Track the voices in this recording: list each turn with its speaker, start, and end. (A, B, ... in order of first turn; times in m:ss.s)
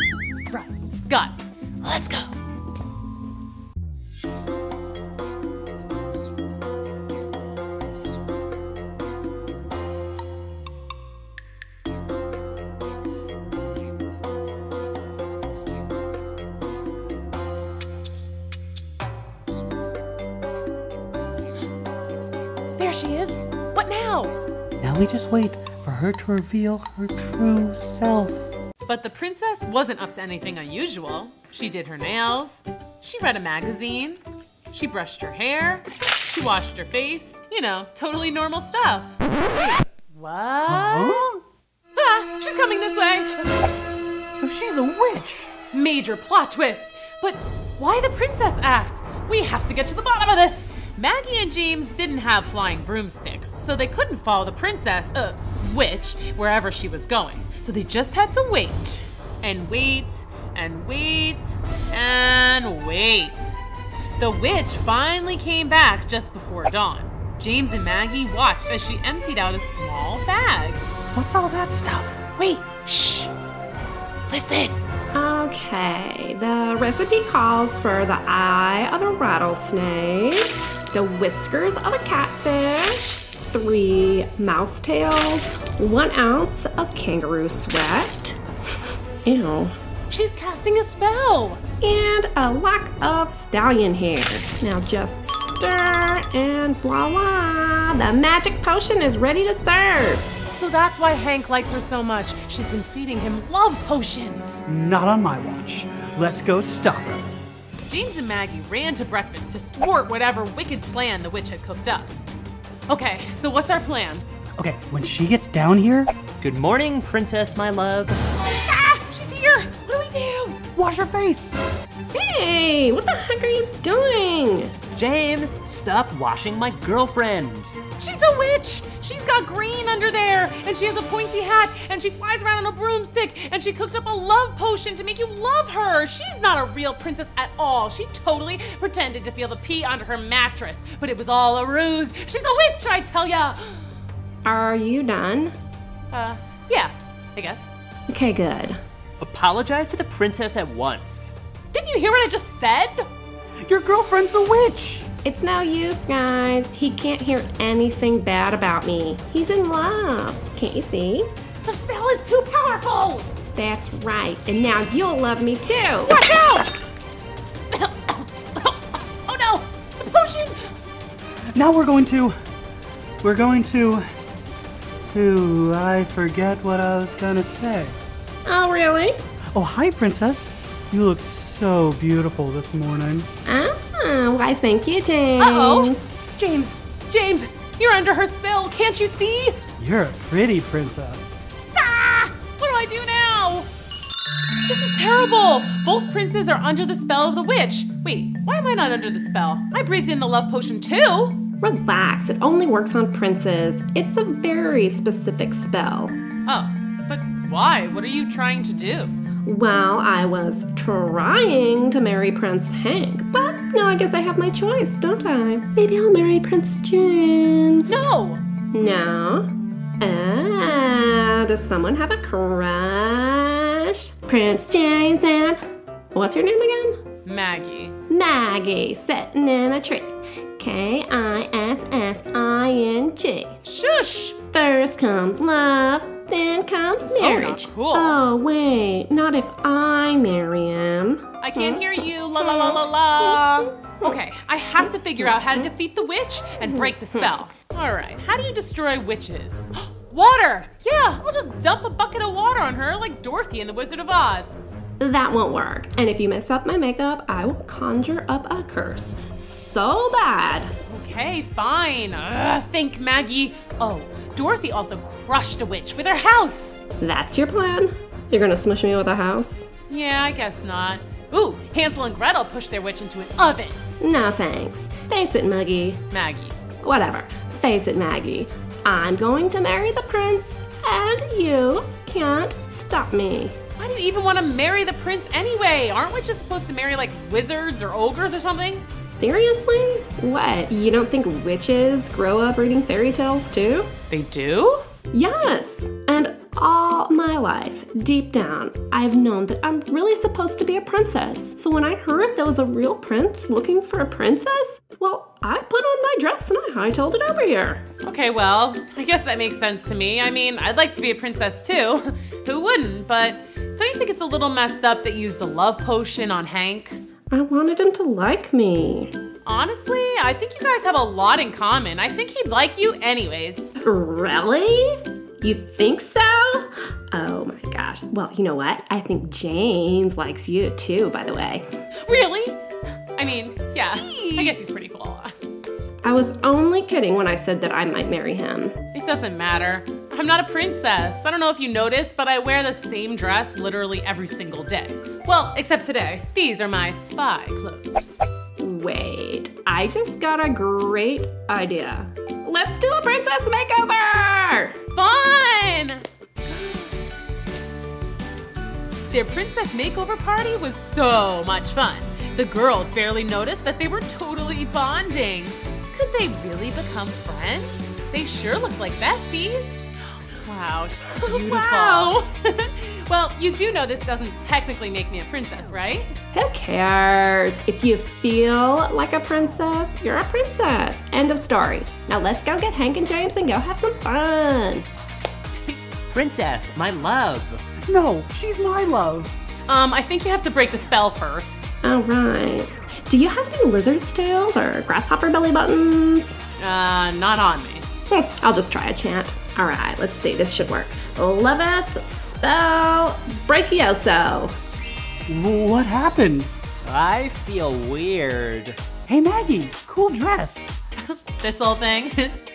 0:00.5-0:02.3 A
0:22.8-0:24.4 A
0:24.8-0:28.4 B
0:28.9-0:34.2 A
0:34.7-0:41.2 A
0:40.7-0:41.4 B
0:42.0-0:43.4 A
0:44.3-0:45.5 B
0:45.7-1:03.6 A
1:04.2-1:10.8 A
1:11.1-1:12.2 B
1:12.4-1:13.3 A
1:14.3-1:14.8 A
1:15.1-1:28.4 C
1:29.2-1:29.8 C
1:30.1-1:31.6 A
1:31.8-1:40.3 C
1:40.6-1:44.6 A
1:44.7-1:47.2 B
1:47.9-1:52.1 A
1:52.9-1:54.2 A
1:54.6-1:56.1 B
1:56.4-1:58.2 D
1:58.6-2:00.6 A
2:00.8-2:01.6 B
2:02.1-2:04.8 C
2:05.0-2:07.7 D
2:08.0-2:23.8 A
2:24.4-2:25.6 C
2:26.1-2:27.7 A
2:28.1-2:28.8 C
2:29.2-2:31.3 D
2:31.7-2:33.1 A
2:33.6-2:35.1 B
2:35.2-2:41.3 C
2:41.6-2:43.3 A
2:43.6-2:46.2 C
2:46.1-2:46.7 A
2:47.7-2:48.7 A
2:49.3-2:50.8 A
2:51.5-2:52.4 B
2:53.2-2:54.0 B
2:55.0-2:58.0 B
2:58.4-2:59.2 C
2:59.5-3:03.3 B
3:03.5-3:06.0 C
3:05.4-3:09.6 A
3:09.8-3:11.4 B
3:11.8-3:13.7 A
3:14.7-3:21.4 A
3:21.6-3:26.2 C
3:26.5-3:29.2 A
3:29.4-3:38.1 C
3:37.9-3:38.4 A
3:38.7-3:45.6 C
3:46.1-3:47.0 C
3:47.3-3:48.0 A
3:48.1-3:53.6 C
3:53.6-3:54.4 A
3:54.5-4:04.2 C
3:57.1-3:58.2 A
4:01.4-4:14.6 A
4:04.8-4:05.7 C
4:06.6-4:07.4 C
4:15.0-4:20.7 C
4:20.9-4:26.8 A
4:27.0-4:29.7 C
4:29.9-4:33.8 A
4:34.0-4:36.0 C
4:36.1-4:36.6 A
4:36.8-4:43.6 C
4:43.8-4:48.9 A
4:49.1-4:53.9 C
4:54.1-4:54.8 A
4:55.1-5:07.8 C
5:08.0-5:17.0 A
5:17.3-5:19.1 C
5:19.5-5:23.7 A
5:23.8-5:31.7 C
5:32.0-5:32.6 A
5:33.2-5:35.3 A
5:36.0-5:38.8 C
5:38.9-5:48.2 A
5:48.6-5:54.8 C
5:55.0-5:56.9 A
5:59.1-6:09.9 A
6:10.4-6:16.1 A
6:11.2-6:12.1 C
6:16.3-6:24.9 C
6:26.1-6:27.6 D
6:27.9-6:29.3 B
6:29.7-6:31.7 A
6:31.8-6:36.4 C
6:36.6-6:37.8 A
6:38.1-6:44.6 C
6:45.3-6:46.5 B
6:46.8-6:48.8 D
6:49.1-6:50.8 B
6:51.1-6:52.4 A